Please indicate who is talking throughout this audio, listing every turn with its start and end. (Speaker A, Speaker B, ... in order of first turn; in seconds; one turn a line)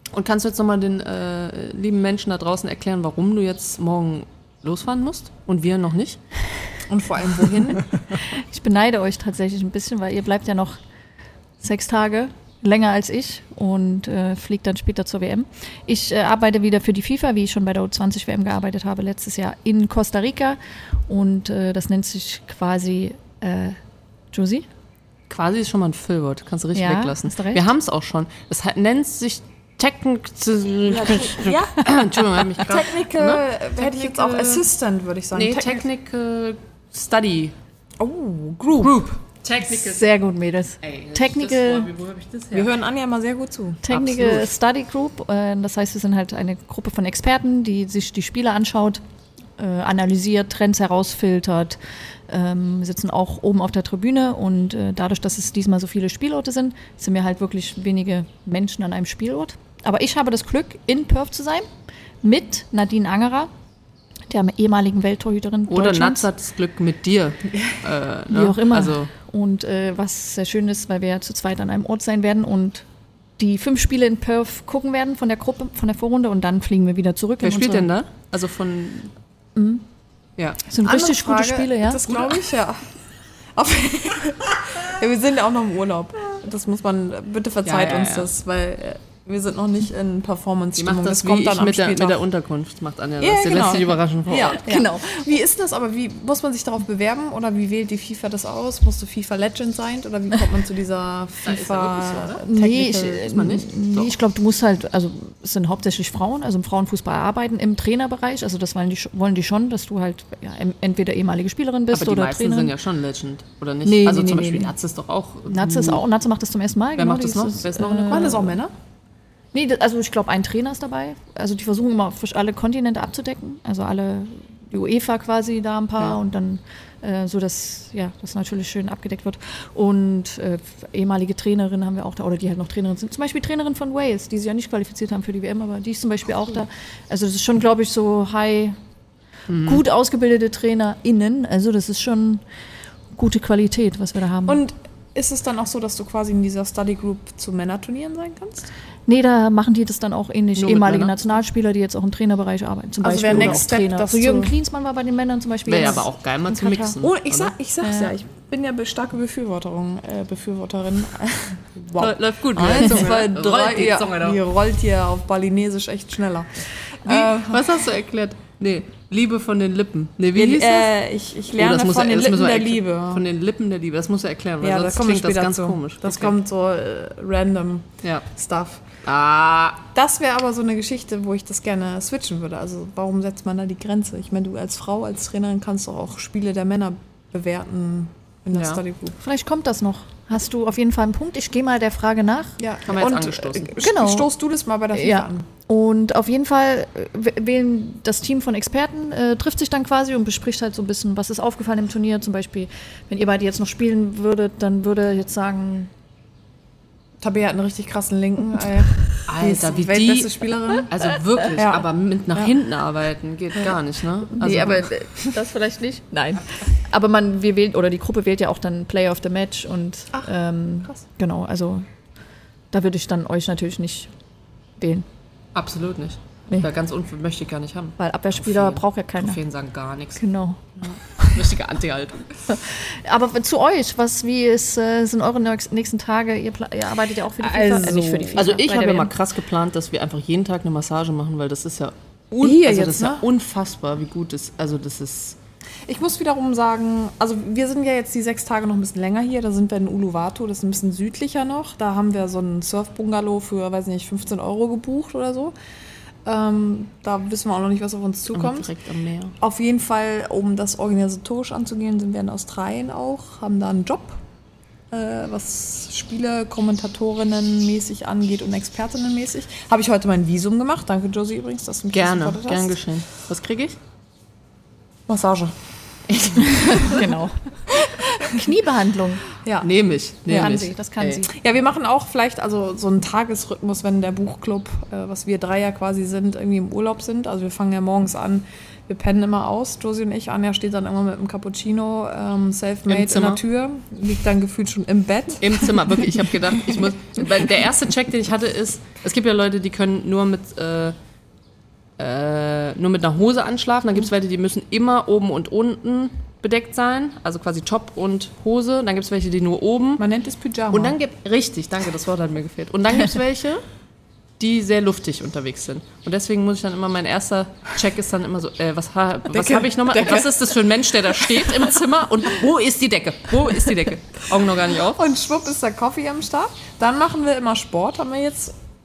Speaker A: 0.1-6.2
Speaker B: 6.9-7.8
Speaker C: 8.1-10.8
Speaker C: 11.6-23.8
Speaker C: 24.3-24.6
Speaker A: 25.3-34.6
Speaker C: 26.7-27.6
Speaker B: 30.9-31.8
Speaker C: 31.3-31.9
Speaker B: 32.6-35.8
Speaker A: 35.3-37.5
Speaker B: 38.0-39.0
Speaker A: 38.8-40.1
Speaker C: 39.6-41.9
Speaker A: 40.8-42.7
Speaker B: 42.5-43.9
Speaker C: 43.8-49.0
Speaker A: 43.9-44.5
Speaker C: 49.6-61.7
Speaker C: 62.2-63.5
Speaker C: 64.3-66.3
Speaker A: 65.7-69.1
Speaker C: 68.3-72.8
Speaker C: 73.4-77.9
Speaker A: 77.4-79.1
Speaker C: 79.5-79.8
Speaker C: 80.6-82.0
Speaker B: 80.8-83.0
Speaker A: 82.1-82.4
Speaker B: 83.5-92.2
Speaker A: 87.6-88.3
Speaker A: 90.8-94.6
Speaker B: 93.2-102.9
Speaker C: 94.6-95.3
Speaker A: 101.4-104.1
Speaker C: 102.4-112.7
Speaker A: 111.9-116.0
Speaker C: 113.8-114.7
Speaker C: 115.5-118.5
Speaker A: 117.0-118.4
Speaker B: 117.9-118.7
Speaker C: 119.5-138.8
Speaker A: 139.5-139.8
Speaker C: 139.6-142.4
Speaker C: 143.1-144.6
Speaker B: 144.5-148.7
Speaker C: 149.1-156.0
Speaker A: 150.6-151.1
Speaker B: 153.0-154.5
Speaker A: 153.2-153.7
Speaker A: 155.7-157.5
Speaker B: 156.6-167.9
Speaker C: 157.8-158.1
Speaker A: 161.9-164.4
Speaker A: 167.0-170.9
Speaker B: 170.3-173.2
Speaker A: 171.6-176.4
Speaker B: 174.6-178.8
Speaker A: 179.0-179.8
Speaker B: 179.9-189.2
Speaker A: 188.5-188.8
Speaker C: 189.2-192.6
Speaker B: 192.6-195.5
Speaker A: 192.8-193.8
Speaker C: 193.8-194.3
Speaker C: 194.9-205.9
Speaker B: 207.2-210.9
Speaker A: 209.3-214.9
Speaker B: 211.5-212.5
Speaker C: 214.4-221.8
Speaker C: 222.7-224.1
Speaker C: 224.8-225.1
Speaker A: 225.5-230.2
Speaker C: 228.0-229.4
Speaker C: 230.2-230.6
Speaker A: 231.2-232.4
Speaker C: 232.5-239.1
Speaker B: 237.4-238.5
Speaker A: 238.3-245.3
Speaker B: 242.4-243.2
Speaker B: 245.8-255.5
Speaker B: 256.2-258.7
Speaker A: 258.3-259.3
Speaker B: 259.4-264.2
Speaker B: 264.9-272.8
Speaker A: 271.9-273.8
Speaker B: 275.1-277.0
Speaker A: 276.1-276.8
Speaker C: 276.4-279.2
Speaker B: 277.9-278.4
Speaker B: 279.4-279.7
Speaker A: 279.6-281.2
Speaker B: 280.3-280.6
Speaker C: 280.3-281.3
Speaker B: 281.3-296.0
Speaker A: 292.9-293.4
Speaker A: 295.4-300.9
Speaker A: 302.0-310.0
Speaker B: 310.0-311.0
Speaker A: 310.7-313.6
Speaker A: 314.4-325.0
Speaker B: 319.3-320.4
Speaker B: 324.7-328.6